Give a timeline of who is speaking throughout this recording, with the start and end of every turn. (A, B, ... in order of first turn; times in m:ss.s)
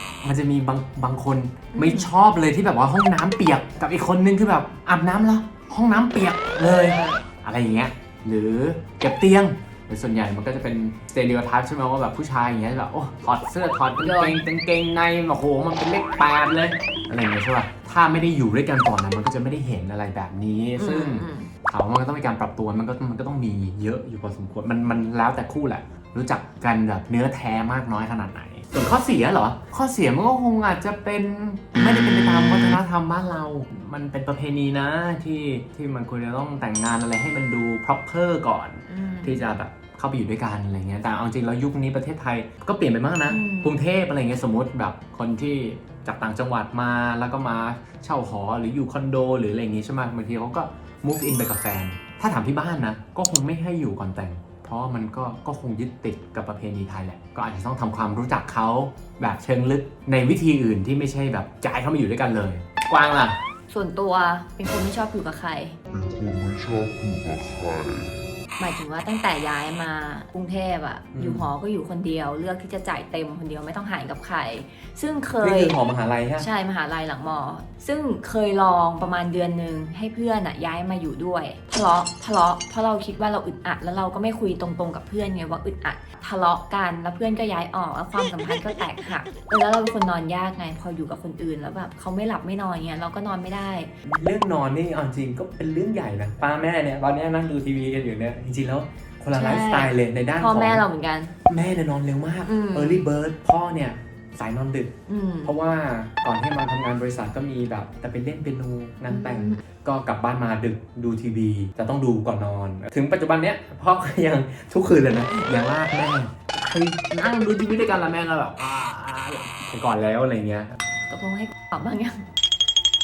0:00.2-1:03.4 A
0:01.7-0:02.1 B
0:06.9-0:07.2 B
0:14.0-0:14.4 B
0:20.8-0:21.5 B
0:38.9-0:39.4 B
0:43.3-0:43.7 B
1:03.7-1:05.8 B
1:05.9-1:08.2 C
1:08.6-1:15.8 B
1:11.1-1:11.5 A
1:15.4-1:16.5 A
1:16.4-1:33.9 B
1:34.0-1:40.9 A
1:39.3-1:41.3 B
1:41.5-1:44.9 A
1:42.5-1:43.0 B
1:45.1-1:45.5 B
1:45.4-2:00.7 A
1:49.1-1:49.6 B
2:01.1-2:02.3 B